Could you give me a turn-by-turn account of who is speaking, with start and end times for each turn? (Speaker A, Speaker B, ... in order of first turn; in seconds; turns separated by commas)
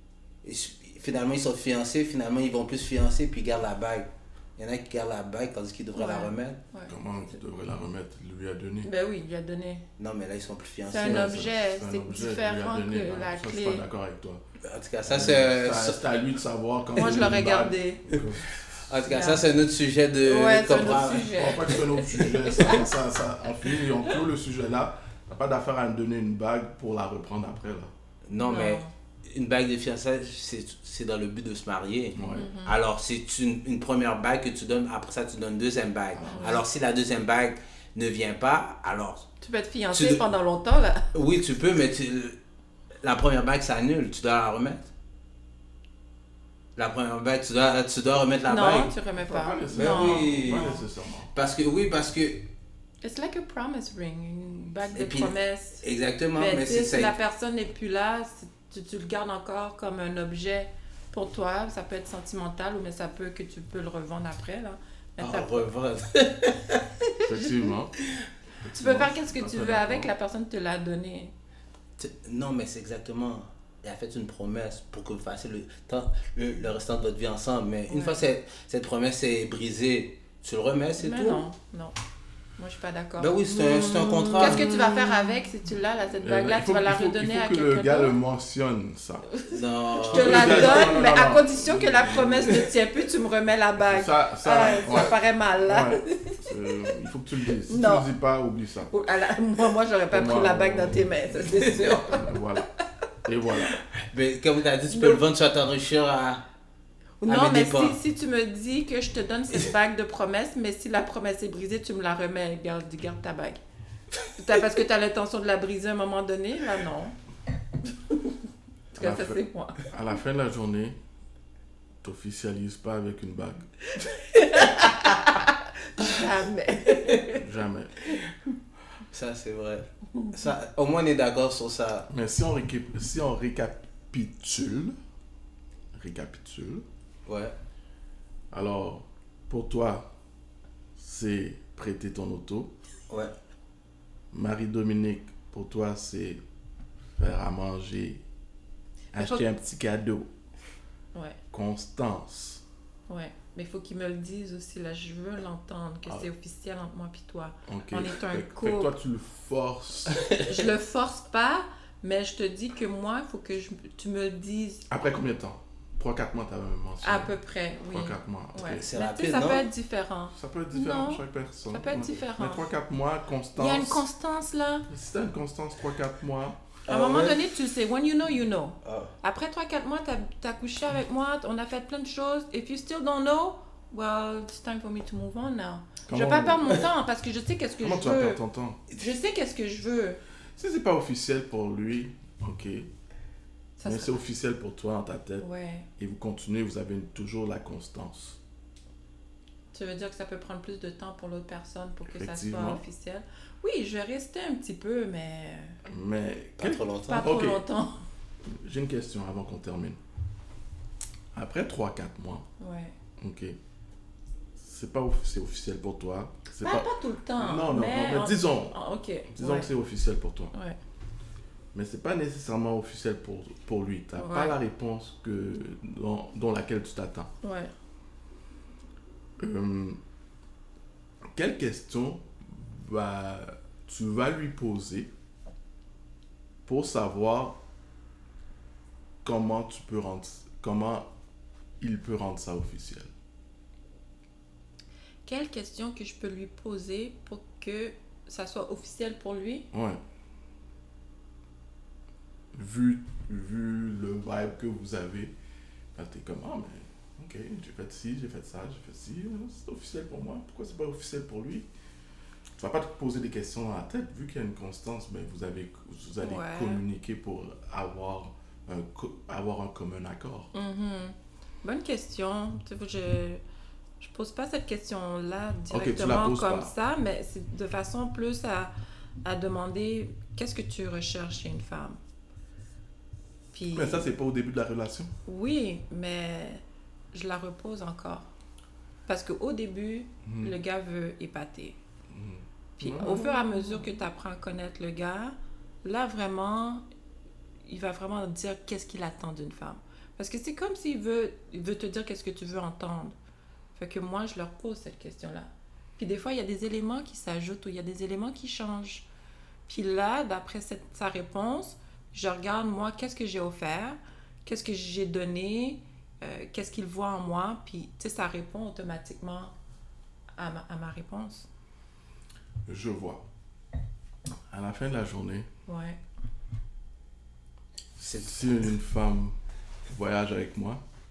Speaker A: 0.4-6.6, Speaker B: 5.9-7.0, Speaker C: 6.9-8.9, Speaker B: 8.8-9.9, Speaker A: 10.0-11.4, Speaker B: 10.9-13.8, Speaker C: 11.0-14.4, Speaker A: 14.6-16.1, Speaker C: 15.0-19.1, Speaker B: 16.9-18.1, Speaker A: 18.9-21.8, Speaker B: 19.0-19.5, Speaker B: 20.2-22.9, Speaker C: 21.1-27.9, Speaker A: 28.3-39.3, Speaker B: 28.4-28.9, Speaker C: 32.1-32.5, Speaker B: 32.3-32.8, Speaker C: 36.1-36.6, Speaker B: 36.3-36.6, Speaker B: 39.4-41.0, Speaker A: 39.9-40.2, Speaker A: 41.1-42.4, Speaker A: 43.0-44.9, Speaker A: 46.8-48.9, Speaker B: 48.5-50.7, Speaker C: 49.2-51.3, Speaker A: 49.7-52.5, Speaker B: 53.0-65.7, Speaker A: 54.9-57.1, Speaker A: 65.2-66.8, Speaker C: 67.2-67.9, Speaker B: 67.3-67.7, Speaker C: 68.7-70.1, Speaker B: 68.7-71.3, Speaker A: 72.0-81.5, Speaker B: 77.9-78.3, Speaker B: 81.0-82.0, Speaker B: 82.6-88.2, Speaker A: 83.2-84.8, Speaker C: 84.4-85.4, Speaker C: 86.2-89.3, Speaker B: 89.3-96.9, Speaker A: 89.5-91.0, Speaker C: 90.0-92.7, Speaker C: 93.8-98.9, Speaker B: 97.7-98.1, Speaker B: 98.9-102.4, Speaker C: 100.1-102.7, Speaker C: 103.3-103.8, Speaker A: 104.0-106.4, Speaker B: 104.9-105.2, Speaker B: 107.2-113.6, Speaker A: 107.2-108.0, Speaker B: 114.3-117.2, Speaker B: 118.9-119.8, Speaker C: 119.0-121.0, Speaker C: 122.0-123.7, Speaker B: 123.9-127.4, Speaker C: 127.3-127.9, Speaker A: 129.1-132.1, Speaker C: 132.1-135.0, Speaker C: 136.0-136.9, Speaker A: 137.3-137.6, Speaker C: 138.5-140.1, Speaker C: 141.0-142.7, Speaker C: 144.3-146.4, Speaker C: 147.2-148.2, Speaker C: 149.1-150.3, Speaker B: 149.1-149.4, Speaker B: 151.1-151.4, Speaker C: 151.5-152.6, Speaker B: 153.1-159.0, Speaker C: 157.7-160.2, Speaker B: 160.3-164.9, Speaker C: 164.9-167.3, Speaker B: 167.0-172.7, Speaker C: 167.9-168.9, Speaker A: 168.7-169.7, Speaker C: 170.3-174.1, Speaker B: 173.5-174.9, Speaker C: 174.9-176.6, Speaker A: 176.9-177.4, Speaker B: 176.9-190.2, Speaker A: 178.8-179.1, Speaker C: 186.1-186.8, Speaker C: 187.8-188.9, Speaker C: 190.6-192.9, Speaker B: 193.8-194.2, Speaker C: 193.8-198.4, Speaker B: 195.4-195.9, Speaker B: 199.7-205.8, Speaker C: 202.1-202.8, Speaker C: 205.9-207.6, Speaker A: 206.6-207.4, Speaker B: 207.1-208.0, Speaker C: 208.6-210.0, Speaker C: 211.3-212.5, Speaker B: 212.6-212.9, Speaker C: 213.2-213.6, Speaker C: 214.6-218.8, Speaker B: 216.6-219.7, Speaker C: 219.3-220.5, Speaker C: 221.7-227.3, Speaker B: 224.2-224.6, Speaker B: 227.4-227.7, Speaker C: 229.4-230.0, Speaker C: 231.3-235.1, Speaker C: 236.7-237.6, Speaker C: 239.2-241.1, Speaker C: 241.8-243.1, Speaker B: 245.3-249.7, Speaker C: 249.7-250.0, Speaker C: 252.5-255.3, Speaker C: 255.9-261.7, Speaker C: 262.6-270.5, Speaker B: 266.2-266.8, Speaker B: 270.5-273.4, Speaker B: 274.0-278.7, Speaker C: 275.7-276.7, Speaker B: 279.2-282.0, Speaker B: 283.5-284.1, Speaker C: 283.7-285.1, Speaker B: 285.3-286.6, Speaker B: 287.1-288.3, Speaker B: 289.1-291.8, Speaker C: 290.2-290.6, Speaker C: 292.1-293.9, Speaker B: 292.8-296.8, Speaker B: 297.6-303.2, Speaker B: 303.8-309.1, Speaker B: 309.7-319.5, Speaker B: 320.4-321.5, Speaker C: 322.7-323.3, Speaker C: 324.5-325.5, Speaker B: 325.7-326.0, Speaker A: 328.0-328.6, Speaker C: 328.0-329.4, Speaker C: 329.9-330.8